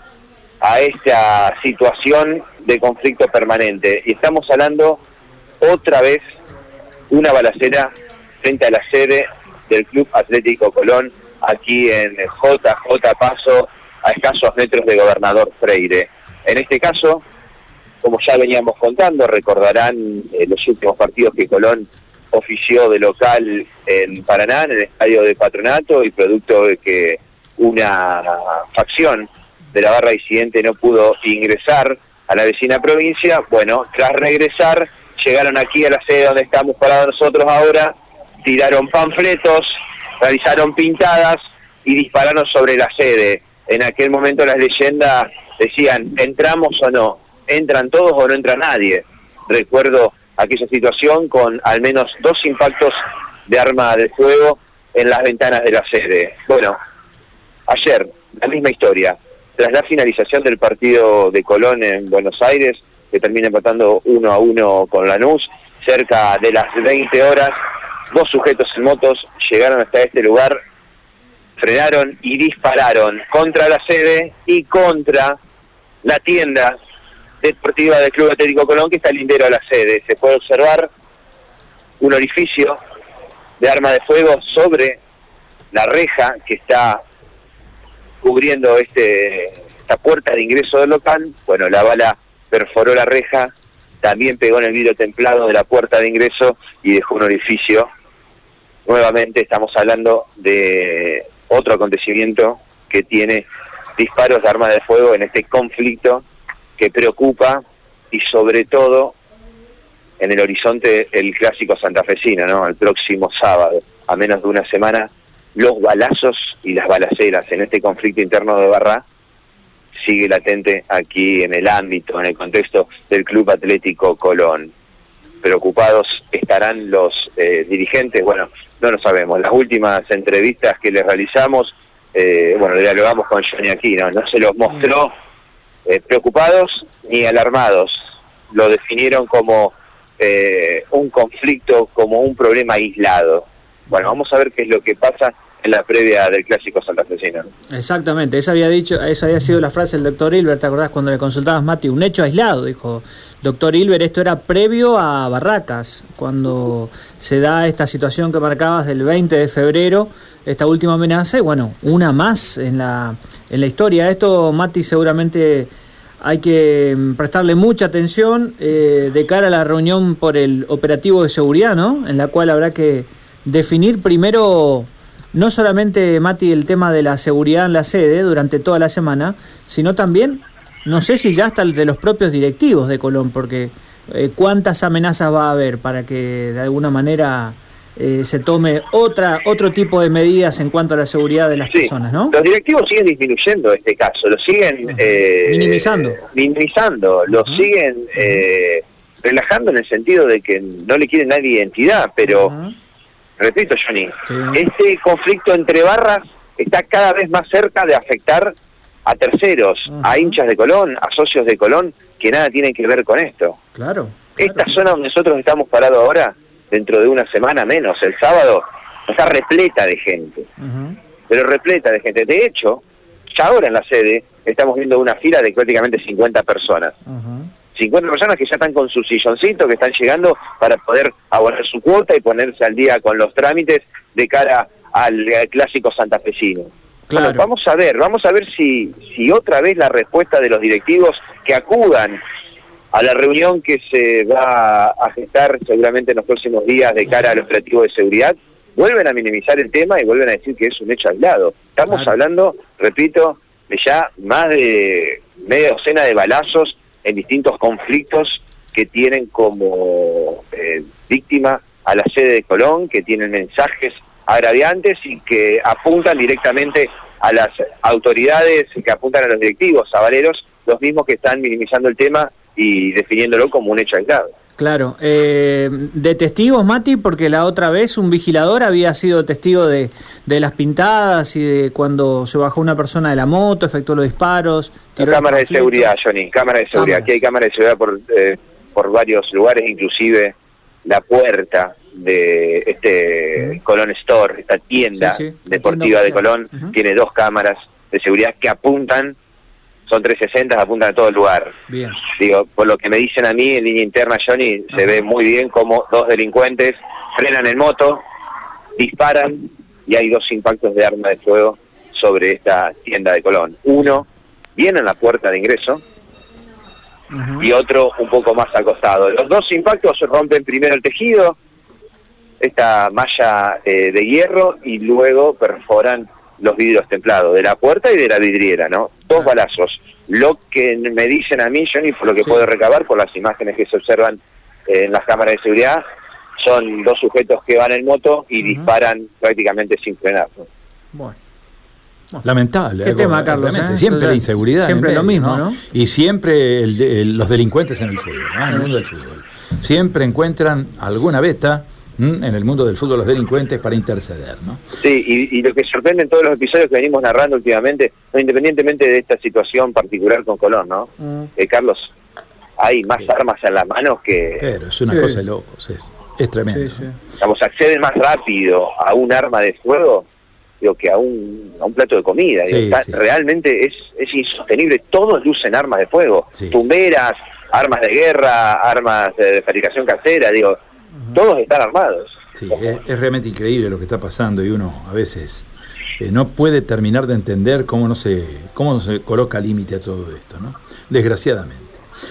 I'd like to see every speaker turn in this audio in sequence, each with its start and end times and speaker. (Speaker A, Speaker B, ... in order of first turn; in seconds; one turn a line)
Speaker A: 0.6-5.0
Speaker A: 5.6-6.2
Speaker A: 7.1-17.2
Speaker A: 18.0-56.8
Speaker A: 57.7-67.6
Speaker A: 68.1-70.6
Speaker A: 71.6-75.4
Speaker A: 76.0-76.8
Speaker A: 77.4-80.9
Speaker A: 82.0-82.8
Speaker A: 83.6-85.0
Speaker A: 85.7-87.0
Speaker A: 88.2-93.5
Speaker A: 94.0-97.9
Speaker A: 98.8-106.2
Speaker A: 106.8-109.1
Speaker A: 110.2-119.0
Speaker A: 120.0-124.7
Speaker A: 125.4-135.1
Speaker A: 135.8-138.0
Speaker A: 138.5-147.5
Speaker B: 147.7-165.7
Speaker B: 166.2-192.3
Speaker A: 191.7-202.5
Speaker B: 194.9-196.2
Speaker B: 197.3-198.4
Speaker B: 202.2-202.7
Speaker A: 203.4-208.5
Speaker B: 204.2-204.6
Speaker A: 209.1-213.6
Speaker B: 209.9-210.4
Speaker B: 213.7-214.8
Speaker A: 214.4-220.5
Speaker B: 220.6-221.0
Speaker A: 221.3-226.9
Speaker B: 227.1-227.5
Speaker A: 227.7-242.2
Speaker B: 237.1-237.4
Speaker A: 242.9-274.3
Speaker B: 274.6-285.9
Speaker A: 285.0-299.2
Speaker B: 286.7-287.1
Speaker B: 294.9-296.7
Speaker A: 299.9-308.0
Speaker B: 301.7-302.0
Speaker A: 308.8-315.8
Speaker B: 317.1-317.5
Speaker A: 317.4-321.4
Speaker A: 322.4-335.8
Speaker A: 336.4-340.5
Speaker B: 338.4-338.7
Speaker C: 342.2-354.6
Speaker B: 342.8-345.6
Speaker A: 354.8-361.9
Speaker B: 361.0-361.3
Speaker A: 362.6-364.5
Speaker C: 364.4-366.9
Speaker B: 364.9-365.2
Speaker B: 366.4-366.9
Speaker A: 367.2-370.1
Speaker A: 370.6-380.6
Speaker C: 372.5-373.0
Speaker A: 381.1-382.1
Speaker C: 382.4-385.5
Speaker C: 386.0-391.8